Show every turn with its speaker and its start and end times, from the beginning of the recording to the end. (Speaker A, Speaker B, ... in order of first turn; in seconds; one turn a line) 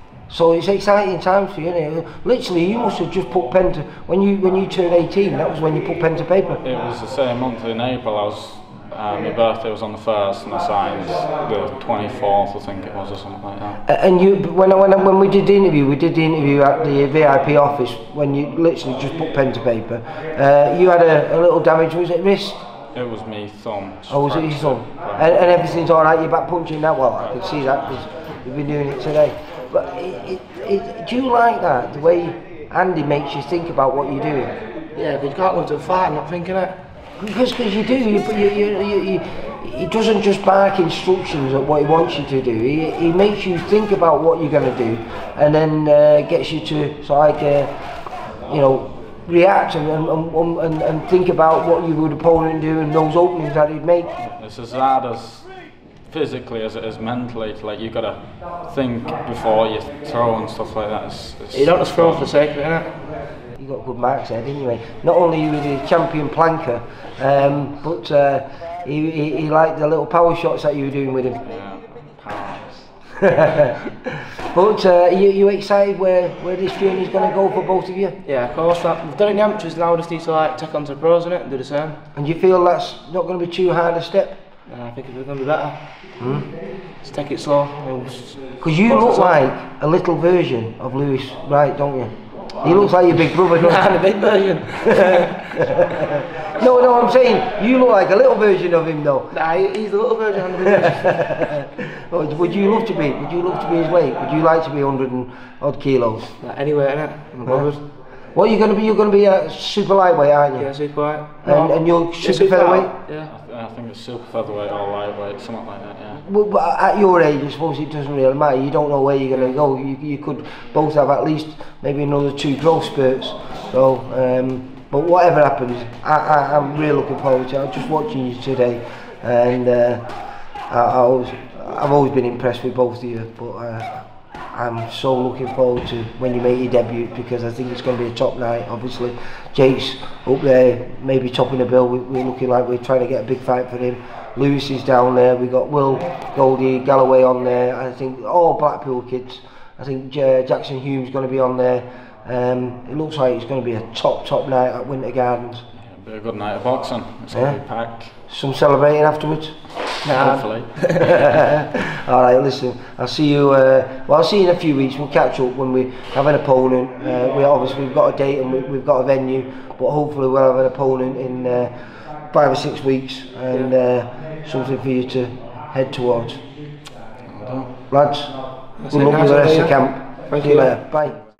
Speaker A: 0.3-6.6
Speaker B: 6.6-13.8
Speaker A: 13.8-22.6
Speaker B: 22.9-25.4
Speaker A: 24.1-34.5
Speaker C: 34.9-36.8
Speaker A: 37.2-47.7
Speaker A: 48.5-54.1
Speaker B: 54.1-55.5
Speaker B: 56.0-62.3
Speaker C: 61.5-63.0
Speaker A: 63.5-71.4
Speaker B: 71.4-72.9
Speaker A: 73.2-73.8
Speaker A: 74.5-78.2
Speaker C: 78.2-82.0
Speaker A: 82.1-84.4
Speaker C: 84.7-85.8
Speaker A: 86.2-86.5
Speaker C: 87.0-89.4
Speaker A: 88.6-93.9
Speaker C: 92.6-95.7
Speaker A: 95.0-99.3
Speaker C: 99.3-101.3
Speaker A: 100.7-106.3
Speaker C: 106.4-107.8
Speaker A: 108.3-110.7
Speaker C: 110.5-113.3
Speaker A: 111.4-112.9
Speaker B: 113.2-116.2
Speaker A: 116.1-130.0
Speaker A: 130.7-155.6
Speaker B: 155.7-158.1
Speaker A: 157.3-159.6
Speaker C: 160.0-161.1
Speaker B: 160.1-161.3
Speaker A: 161.1-171.7
Speaker A: 172.3-176.4
Speaker B: 177.2-177.7
Speaker A: 177.9-178.4
Speaker C: 178.8-180.7
Speaker A: 178.9-181.2